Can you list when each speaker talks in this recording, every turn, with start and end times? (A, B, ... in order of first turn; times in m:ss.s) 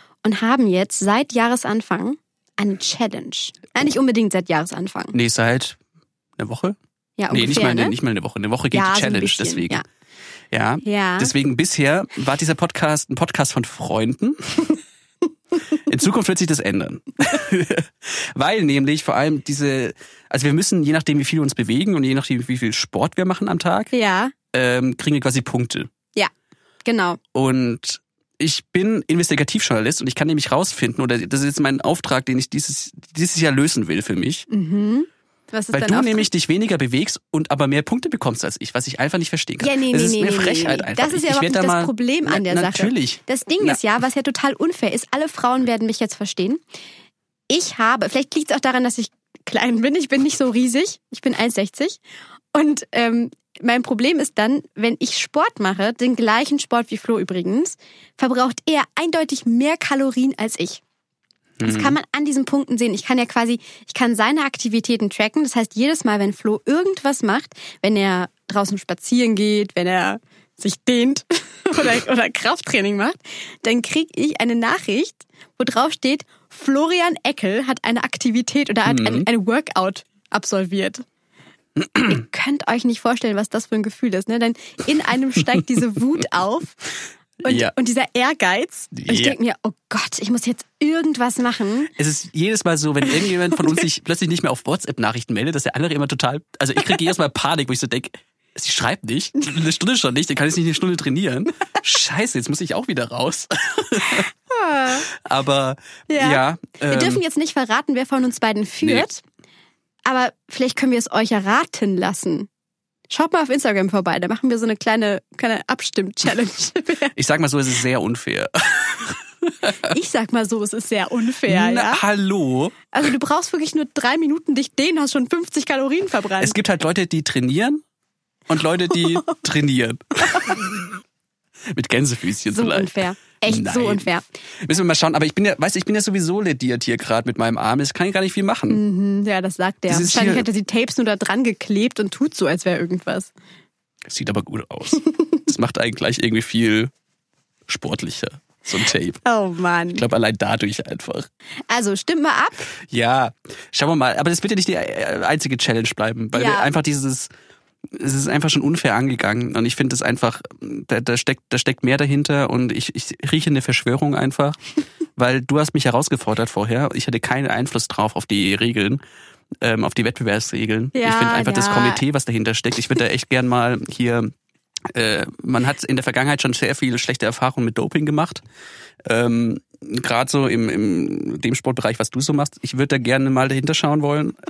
0:00.2-0:05.2 A
0:05.1-0:05.8 B
0:06.4-0:06.8 B
0:07.2-0:08.0 A
0:07.3-0:09.8 B
0:08.7-0:09.8 A
0:10.5-0:14.8 B
0:10.8-0:11.3 A
0:15.8-0:23.9 B
0:23.9-0:24.3 A
0:24.5-0:25.9 B
0:26.8-0:27.2 A
0:27.3-0:34.5 B
0:34.5-0:36.3 A
0:35.7-0:43.8 B
0:39.6-0:46.6 A
0:47.5-0:52.0 A
0:52.5-1:00.8 A
1:01.6-1:02.0 B
1:01.6-1:21.0 A
1:18.9-1:19.3 B
1:21.8-1:22.2 B
1:22.0-1:26.8 A
1:27.4-1:31.9 A
1:27.5-1:27.7 B
1:28.9-1:29.4 B
1:32.0-1:44.3 B
1:44.5-1:45.1 A
1:44.9-1:47.2 B
1:46.1-1:49.2 A
1:50.0-1:52.5 A
1:53.1-1:57.1 A
1:57.1-1:59.9 B
1:59.8-2:02.0 A
2:01.5-2:02.9 B
2:02.9-2:06.6 A
2:06.4-2:07.8 B
2:08.5-2:10.9 B
2:10.2-2:10.6 A
2:11.7-2:13.0 B
2:12.5-2:14.2 A
2:13.5-2:14.1 B
2:14.6-2:18.8 B
2:18.7-2:23.3 A
2:19.9-2:20.5 B
2:24.1-2:26.9 B
2:27.7-2:29.2 B
2:29.2-2:30.0 A
2:29.9-2:31.3 B
2:31.7-2:32.6 A
2:32.8-2:37.3 B
2:36.3-2:36.7 A
2:37.9-2:44.6 B
2:45.2-2:49.0 B
2:49.6-2:54.3 B
2:51.0-2:52.0 A
2:54.9-2:58.4 B
2:59.0-3:04.4 B